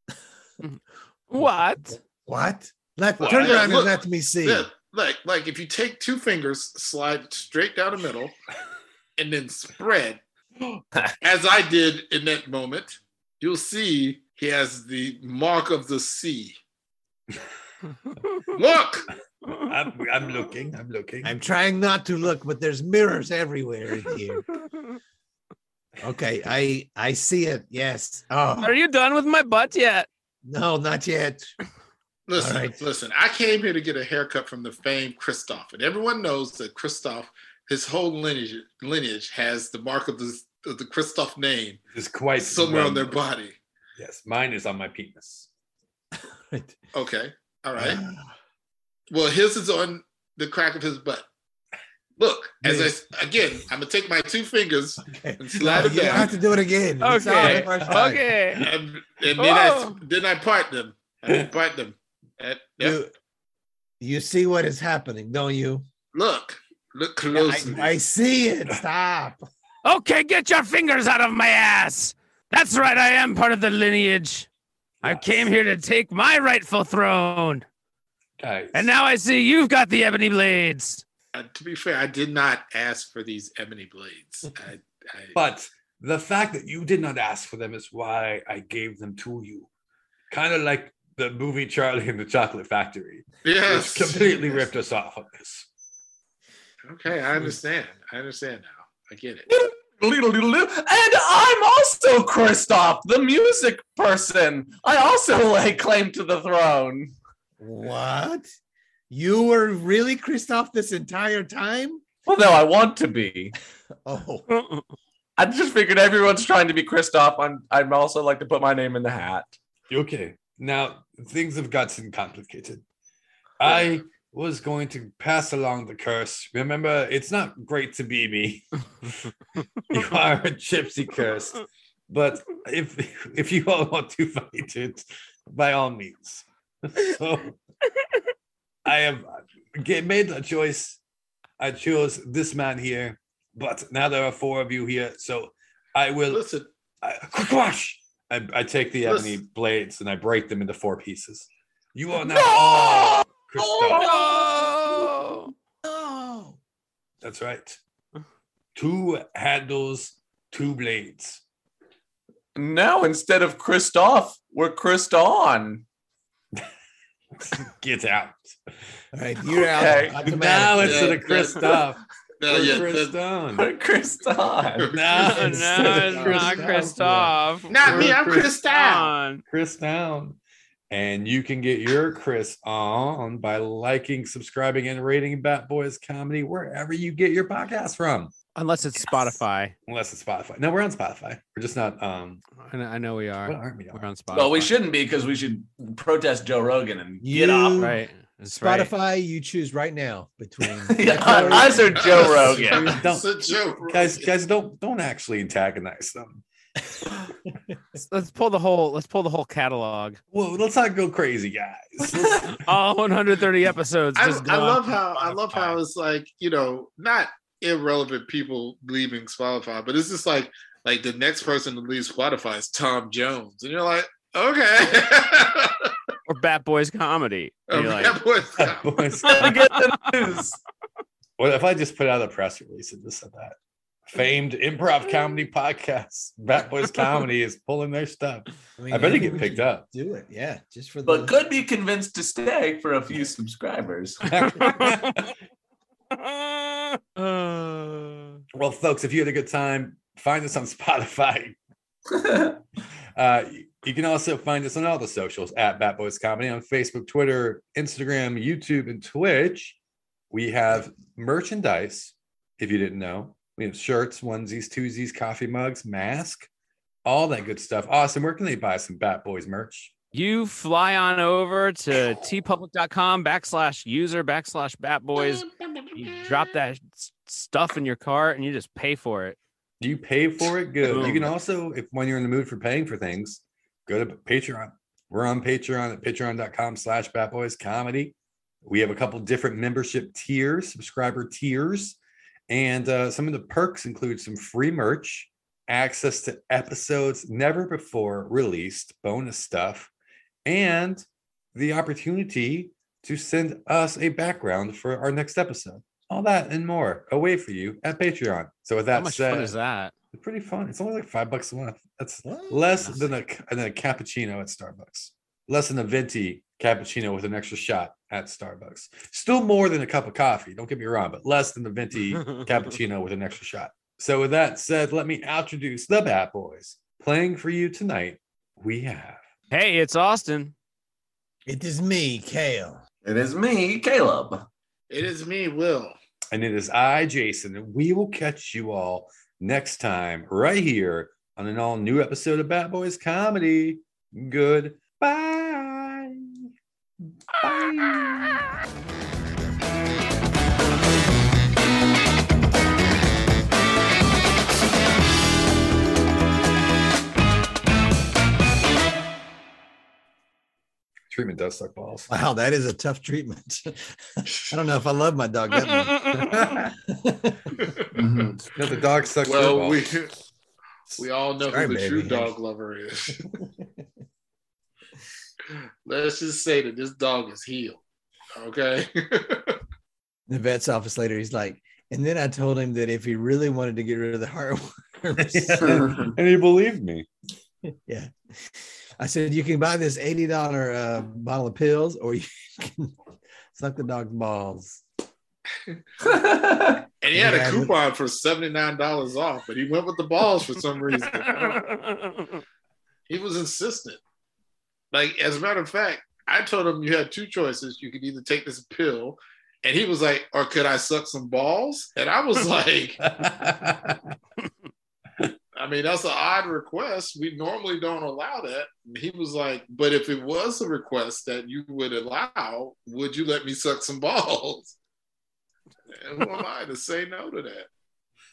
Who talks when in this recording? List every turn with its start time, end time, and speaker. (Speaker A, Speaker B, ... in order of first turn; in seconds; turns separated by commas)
Speaker A: 0.6-2.0, Speaker B: 2.2-4.7, Speaker C: 3.2-3.7, Speaker D: 3.3-8.3, Speaker D: 9.2-10.2, Speaker D: 11.2-16.6, Speaker D: 18.6-19.1, Speaker C: 19.5-21.3, Speaker B: 21.2-24.5, Speaker B: 26.0-28.8, Speaker A: 28.6-30.1, Speaker B: 30.4-31.5, Speaker D: 32.3-41.8, Speaker B: 32.4-32.8, Speaker C: 41.9-43.2, Speaker D: 42.4-43.6, Speaker C: 44.0-45.5, Speaker B: 46.1-46.8, Speaker D: 46.9-48.0, Speaker B: 47.8-48.2, Speaker D: 49.1-51.3, Speaker D: 52.2-56.3, Speaker B: 52.6-53.0, Speaker B: 55.1-58.3, Speaker A: 57.0-58.6, Speaker C: 57.3-58.1, Speaker D: 58.6-63.0, Speaker A: 59.4-60.0, Speaker B: 62.8-63.1, Speaker B: 64.0-65.8, Speaker D: 66.1-68.0, Speaker B: 67.3-69.5, Speaker A: 69.8-74.5, Speaker C: 75.0-75.5, Speaker A: 75.0-77.7, Speaker C: 78.4-79.0, Speaker A: 78.7-81.0, Speaker D: 81.3-85.4, Speaker C: 85.3-89.7, Speaker C: 90.3-95.7, Speaker D: 93.4-94.2, Speaker B: 94.2-94.7, Speaker D: 96.9-99.5, Speaker E: 99.5-107.1, Speaker B: 107.6-108.5, Speaker B: 109.1-112.0, Speaker E: 112.2-113.5, Speaker B: 114.0-114.5, Speaker E: 115.4-119.6, Speaker C: 119.9-122.8, Speaker C: 123.6-129.3, Speaker C: 129.9-137.6, Speaker C: 138.8-141.0, Speaker C: 141.6-146.5, Speaker D: 146.3-146.7, Speaker C: 147.0-154.2, Speaker D: 149.0-149.4, Speaker E: 152.2-154.8, Speaker A: 153.9-155.5, Speaker B: 155.8-156.6, Speaker C: 157.2-157.8, Speaker C: 158.8-161.4, Speaker E: 162.6-165.8, Speaker C: 167.4-168.6, Speaker B: 169.1-171.2, Speaker E: 169.7-170.2, Speaker C: 170.2-173.7, Speaker D: 170.8-173.2, Speaker E: 173.5-174.9, Speaker D: 174.8-176.9, Speaker C: 174.9-178.6, Speaker A: 175.2-179.4, Speaker B: 175.4-176.0, Speaker B: 176.7-177.1, Speaker D: 177.7-179.1, Speaker C: 179.5-188.3, Speaker A: 188.6-189.8, Speaker C: 189.9-192.4, Speaker A: 192.6-194.7, Speaker C: 193.4-194.0, Speaker E: 194.3-198.0, Speaker B: 197.2-198.0, Speaker A: 197.8-198.9, Speaker B: 198.6-202.3, Speaker E: 200.9-203.0, Speaker D: 201.5-204.3, Speaker C: 202.3-206.4, Speaker A: 208.0-210.2, Speaker C: 210.3-212.6, Speaker E: 212.2-212.5, Speaker A: 212.6-215.7, Speaker D: 214.2-225.9, Speaker A: 226.3-228.2, Speaker D: 227.7-228.9, Speaker C: 228.6-229.6, Speaker E: 229.3-230.6, Speaker C: 231.4-233.6, Speaker C: 234.1-239.8, Speaker B: 238.8-241.4, Speaker E: 241.1-244.3, Speaker C: 244.2-245.3, Speaker A: 244.6-244.9, Speaker B: 247.3-248.0, Speaker C: 248.5-251.6, Speaker C: 253.2-259.8, Speaker C: 260.3-266.5, Speaker C: 267.1-269.9, Speaker A: 270.1-279.4, Speaker D: 275.2-275.9, Speaker C: 279.8-299.9, Speaker A: 280.8-281.4, Speaker C: 300.4-309.6, Speaker A: 308.9-309.9, Speaker C: 310.1-329.2, Speaker B: 312.2-312.7, Speaker A: 312.8-313.2, Speaker A: 329.5-330.5, Speaker B: 331.5-332.8, Speaker E: 333.0-334.5, Speaker D: 334.9-336.0, Speaker C: 336.3-346.5, Speaker C: 347.4-348.4, Speaker C: 361.1-362.1, Speaker B: 362.1-367.6, Speaker C: 366.2-366.6, Speaker E: 367.9-368.5, Speaker C: 368.6-370.0, Speaker D: 369.2-370.1, Speaker B: 371.0-372.4, Speaker D: 371.0-373.3, Speaker D: 375.9-377.8, Speaker D: 378.4-379.6, Speaker B: 380.3-385.8, Speaker C: 385.2-387.1, Speaker B: 387.7-392.9, Speaker B: 393.5-394.8, Speaker E: 396.0-396.8, Speaker D: 397.0-401.6, Speaker B: 397.1-397.7, Speaker A: 401.4-402.2, Speaker D: 403.1-404.0, Speaker D: 404.9-413.0, Speaker C: 413.0-414.1, Speaker D: 415.6-424.8, Speaker D: 426.0-427.7